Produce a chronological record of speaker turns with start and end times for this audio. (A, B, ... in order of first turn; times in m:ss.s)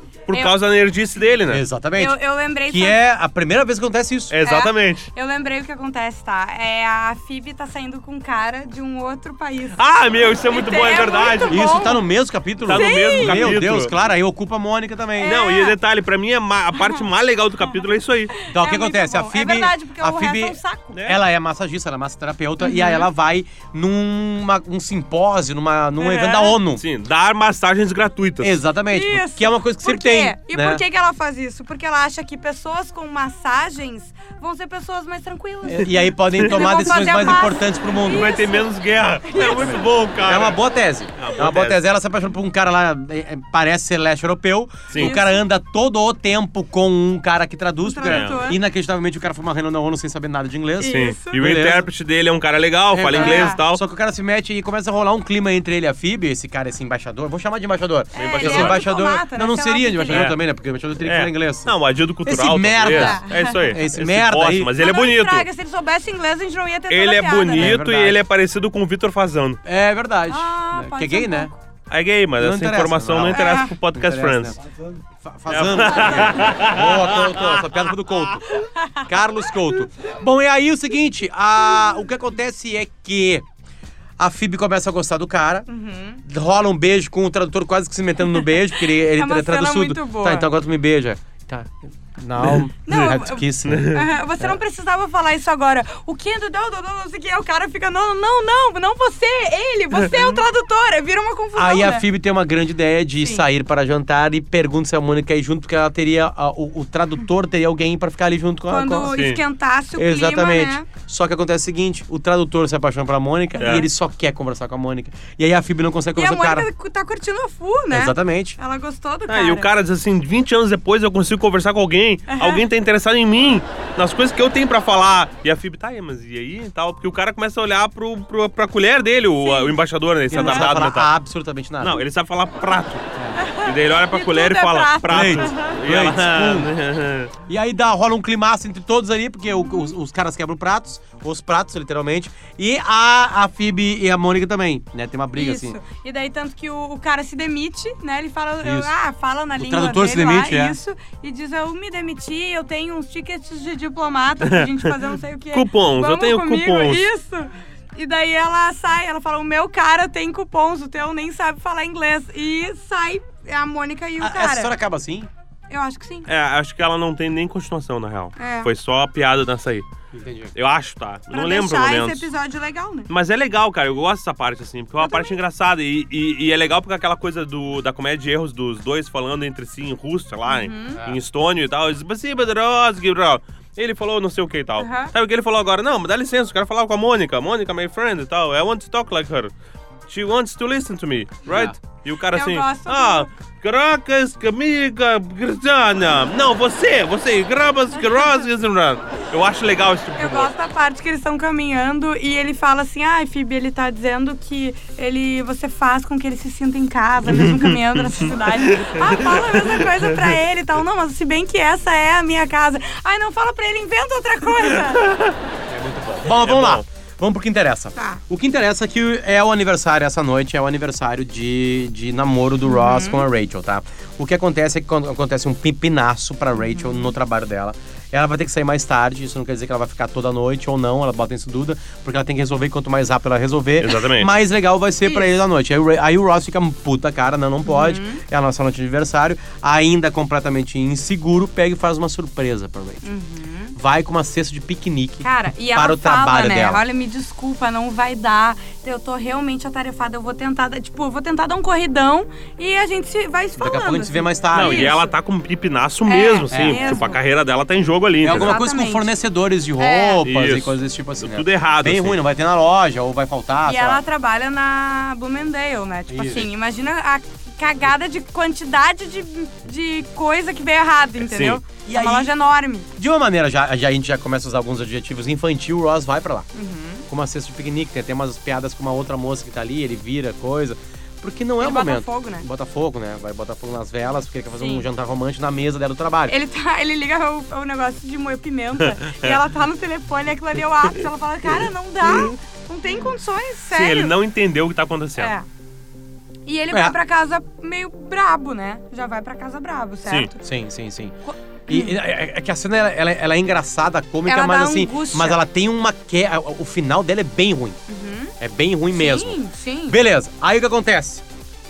0:00.3-0:01.6 A
0:01.5-0:04.4 B
0:02.0-0:03.0 C
0:04.3-0:05.1 A
0:04.4-0:09.8 C
0:09.8-0:11.8 A
0:10.5-0:12.0 C
0:11.5-0:15.4 B
0:12.6-0:13.9 A
0:12.7-0:13.5 C
0:15.2-0:15.8 C
0:15.2-0:18.3 A
0:16.8-0:17.0 C
0:17.6-0:21.0 C
0:18.5-0:26.8 B
0:20.9-0:21.2 A
0:22.6-0:23.1 C
0:26.0-0:26.6 C
0:26.8-0:28.5 A
0:28.4-0:30.8 B
0:28.9-0:38.7 C
0:35.6-0:38.4 B
0:36.4-0:36.9 A
0:38.1-0:40.6 A
0:39.2-0:39.9 C
0:39.4-0:51.9 B
0:41.2-0:41.8 A
0:44.9-0:45.2 A
0:44.9-0:45.4 C
0:47.8-0:48.6 C
0:48.0-0:48.4 A
0:50.8-0:51.4 C
0:50.8-0:53.8 A
0:52.9-1:04.7 B
0:53.1-0:53.6 C
0:58.2-0:58.8 A
0:58.2-1:00.3 C
1:00.1-1:00.4 A
1:01.0-1:05.5 A
1:02.9-1:03.8 C
1:04.8-1:07.8 C
1:06.9-1:09.6 A
1:07.6-1:08.2 B
1:09.6-1:11.5 B
1:10.3-1:11.6 C
1:11.9-1:14.6 A
1:12.4-1:23.5 B
1:13.3-1:13.7 C
1:15.5-1:17.9 A
1:18.6-1:19.1 C
1:24.2-1:25.7 B
1:25.7-1:26.2 C
1:26.2-1:34.6 B
1:28.7-1:30.5 C
1:32.5-1:33.0 A
1:32.8-1:42.0 C
1:33.7-1:34.0 A
1:41.6-1:49.2 B
1:48.7-1:50.9 C
1:49.1-1:49.4 A
1:50.0-1:56.7 B
1:53.6-1:53.9 C
1:53.6-1:53.9 A
1:56.2-1:59.7 C
1:57.9-1:58.6 B
1:59.3-2:11.1 A
2:02.3-2:02.6 C
2:09.4-2:09.8 C
2:10.3-2:12.0 B
2:10.4-2:10.7 C
2:11.8-2:17.3 A
2:13.4-2:15.8 C
2:15.1-2:16.7 B
2:17.5-2:25.8 B
2:19.5-2:19.9 C
2:25.3-2:44.7 C
2:28.6-2:28.9 B
2:29.6-2:30.8 B
2:34.4-2:34.9 A
2:35.5-2:37.1 A
2:44.2-2:45.3 B
2:45.7-2:46.3 C
2:46.3-2:49.9 A
2:48.4-2:48.7 C
2:50.1-2:50.5 B
2:50.5-2:52.3 A
2:51.3-2:53.1 C
2:53.1-3:09.5 A
2:55.0-2:55.4 C
3:00.5-3:01.0 C
3:04.8-3:05.1 C
3:10.1-3:20.5 A
3:11.5-3:11.8 B
3:12.3-3:13.3 C
3:18.0-3:18.4 C
3:20.2-3:35.0 C
3:27.3-3:30.4 A
3:34.8-3:35.4 A
3:35.7-4:03.0 B
3:36.3-3:36.8 A
3:42.6-3:43.2 C
3:46.6-3:47.1 C
3:53.8-3:54.3 A
3:57.6-3:58.2 C
4:03.0-4:03.8 C
4:03.8-4:06.8 B
4:05.2-4:15.1 C
4:13.6-4:15.0 B
4:14.5-4:18.5 A
4:16.1-4:17.2 C
4:16.5-4:17.1 B
4:18.2-4:24.0 B
4:18.3-4:19.1 C
4:19.8-4:20.2 C
4:20.2-4:22.2 A
4:23.6-4:32.9 C
4:26.1-4:26.5 B
4:31.2-4:31.6 A
4:31.9-4:32.3 B
4:33.0-4:36.5 B
4:36.5-4:37.1 C
4:37.1-4:46.4 B
4:41.6-4:42.4 C
4:44.6-4:44.8 C
4:46.3-4:54.1 C
4:48.8-4:49.4 A
4:51.5-4:52.3 A
4:53.7-4:55.3 A
4:55.2-4:55.5 C
4:56.5-5:00.4 C
4:56.7-4:57.0 B
5:00.4-5:01.2 B
5:01.2-5:02.0 C
5:01.7-5:07.8 B
5:04.2-5:05.4 C
5:07.9-5:08.3 C
5:08.4-5:11.2 B
5:08.9-5:10.0 C